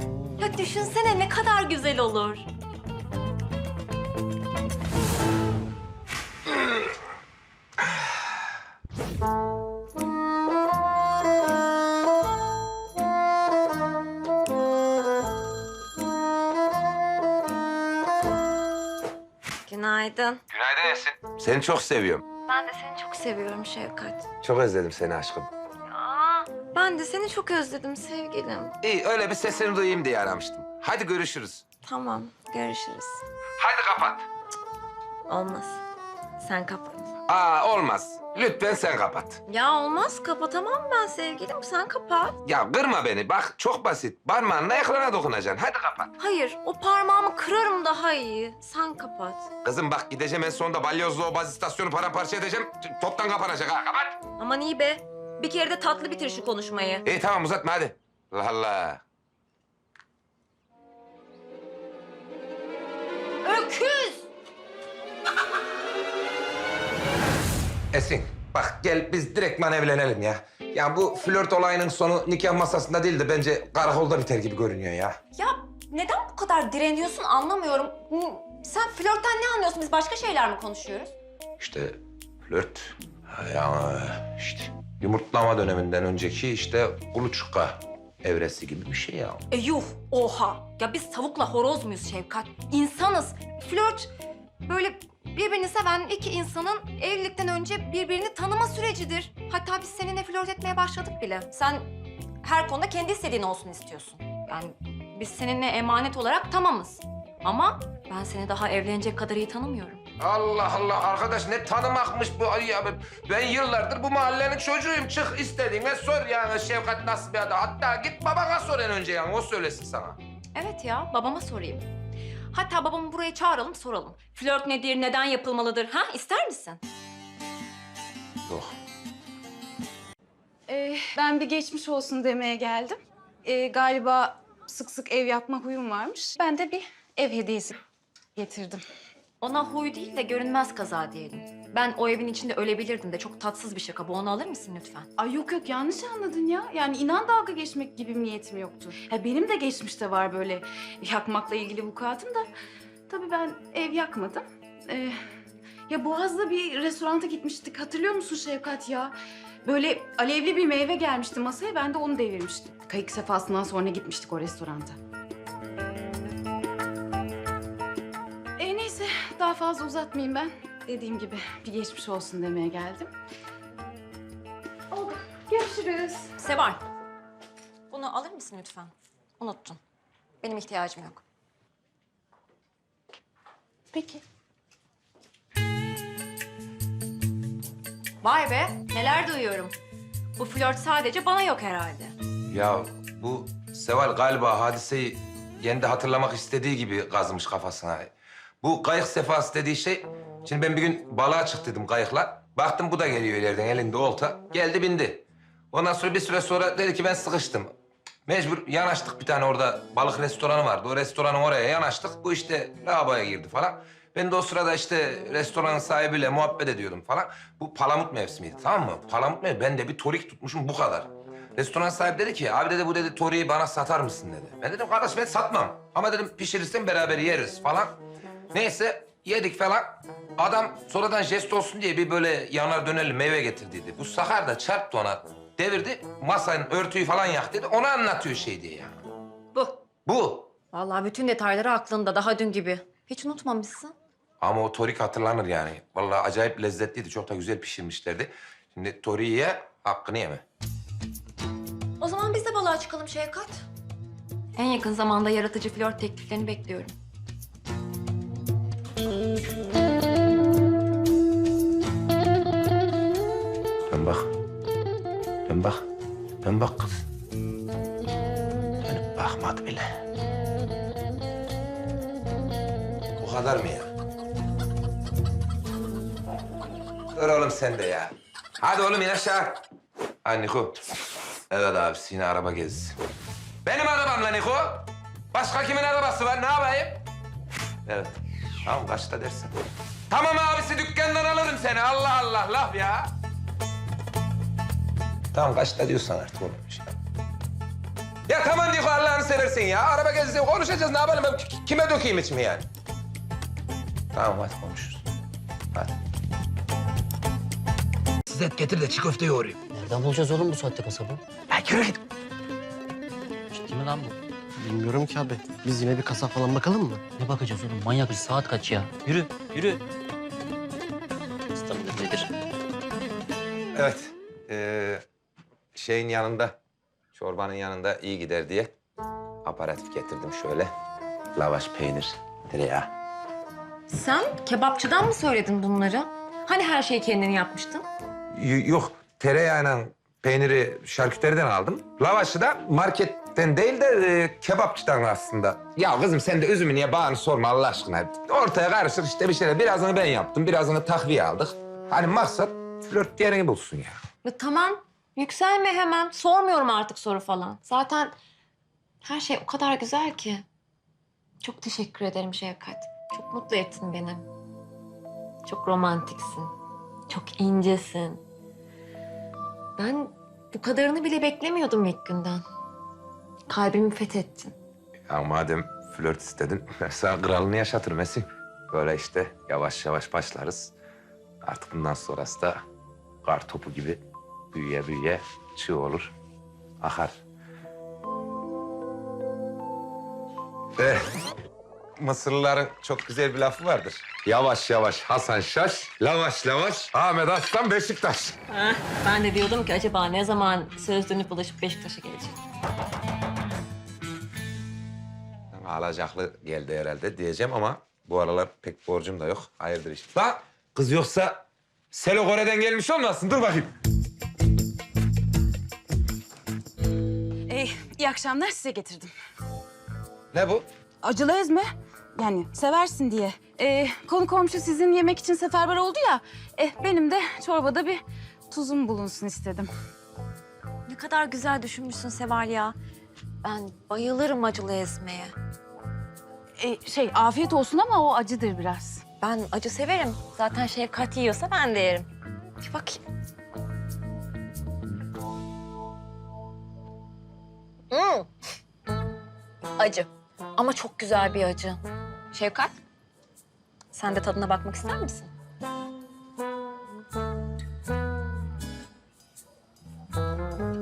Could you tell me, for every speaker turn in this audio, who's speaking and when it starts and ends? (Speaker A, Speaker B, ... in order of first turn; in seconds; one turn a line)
Speaker A: 0.4-2.5
Speaker A: 19.6-20.4
Speaker B: 20.5-22.2
Speaker A: 22.5-24.2
Speaker B: 24.4-25.5
Speaker A: 25.9-28.7
Speaker B: 28.8-31.6
Speaker A: 31.8-33.2
Speaker B: 33.6-34.2
Speaker A: 35.3-35.8
Speaker A: 36.4-37.0
Speaker B: 37.3-39.4
Speaker A: 39.5-42.4
Speaker B: 42.4-46.1
Speaker A: 46.2-49.5
Speaker B: 49.6-54.2
Speaker A: 54.4-57.0
Speaker B: 57.0-59.0
Speaker A: 63.4-64.3
Speaker B: 67.9-75.2
Speaker A: 75.3-81.1
Speaker B: 81.6-89.4
Speaker A: 89.5-94.1
Speaker A: 94.6-110.0
Speaker B: 110.2-120.2
Speaker A: 120.5-121.8
Speaker A: 122.5-126.8
Speaker B: 128.4-128.7
Speaker C: 130.7-137.7
Speaker C: 138.3-138.8
Speaker A: 139.4-145.1
Speaker C: 145.2-152.4
Speaker C: 153.1-155.2
Speaker C: 155.9-159.1
Speaker C: 159.6-165.0
Speaker C: 168.6-173.1
Speaker C: 175.5-176.1
Speaker A: 176.4-176.8
Speaker A: 177.9-179.8
Speaker A: 180.4-181.2
Speaker A: 188.2-189.7
Speaker A: 190.4-192.2
Speaker B: 192.5-198.1
Speaker B: 198.6-207.7
Speaker B: 208.3-228.0
Speaker B: 228.5-239.0
Speaker A: 239.5-239.8
Speaker B: 240.1-240.5
Speaker A: 240.7-243.9
Speaker B: 244.4-250.4
Speaker A: 252.0-253.6
Speaker A: 254.6-256.9
Speaker B: 263.9-264.3
Speaker B: 265.5-265.8
Speaker B: 266.4-266.9
Speaker B: 268.8-269.9
Speaker B: 273.2-273.9
Speaker B: 277.1-279.6
Speaker B: 280.2-280.8
Speaker B: 281.5-282.9
Speaker B: 283.6-287.0
Speaker B: 287.9-289.5
Speaker B: 290.1-293.1
Speaker B: 295.3-296.9
Speaker B: 298.3-302.7
Speaker B: 304.1-305.0
Speaker B: 308.3-309.6
Speaker D: 309.7-311.2
Speaker D: 313.5-314.1
Speaker E: 314.6-317.0
Speaker D: 317.1-319.8
Speaker D: 321.6-322.1
Speaker B: 323.8-325.0
Speaker B: 325.7-326.6
Speaker B: 327.1-328.7
Speaker B: 329.4-330.7
Speaker B: 331.4-332.9
Speaker A: 333.9-337.9
Speaker B: 338.3-354.0
Speaker A: 354.2-358.1
Speaker A: 359.0-360.4
Speaker A: 361.4-364.3
Speaker A: 365.4-366.5
Speaker A: 367.1-368.2
Speaker A: 369.8-372.4
Speaker A: 373.5-374.5
Speaker B: 375.1-380.7
Speaker B: 381.4-382.6
Speaker B: 383.2-384.0
Speaker B: 384.5-386.1
Speaker B: 386.8-387.2
Speaker B: 390.8-391.0
Speaker B: 392.0-398.4
Speaker A: 398.5-402.4
Speaker B: 405.5-413.7
Speaker C: 417.5-419.1
Speaker B: 420.3-420.6
Speaker C: 421.0-421.6
Speaker C: 422.1-428.0
Speaker C: 428.5-429.7
Speaker A: 430.9-432.7
Speaker A: 433.4-435.3
Speaker C: 436.6-439.0
Speaker A: 439.2-442.1
Speaker A: 442.6-443.0
Speaker A: 447.9-448.3
Speaker A: 449.8-451.8
Speaker A: 452.3-452.7
Speaker A: 453.9-455.3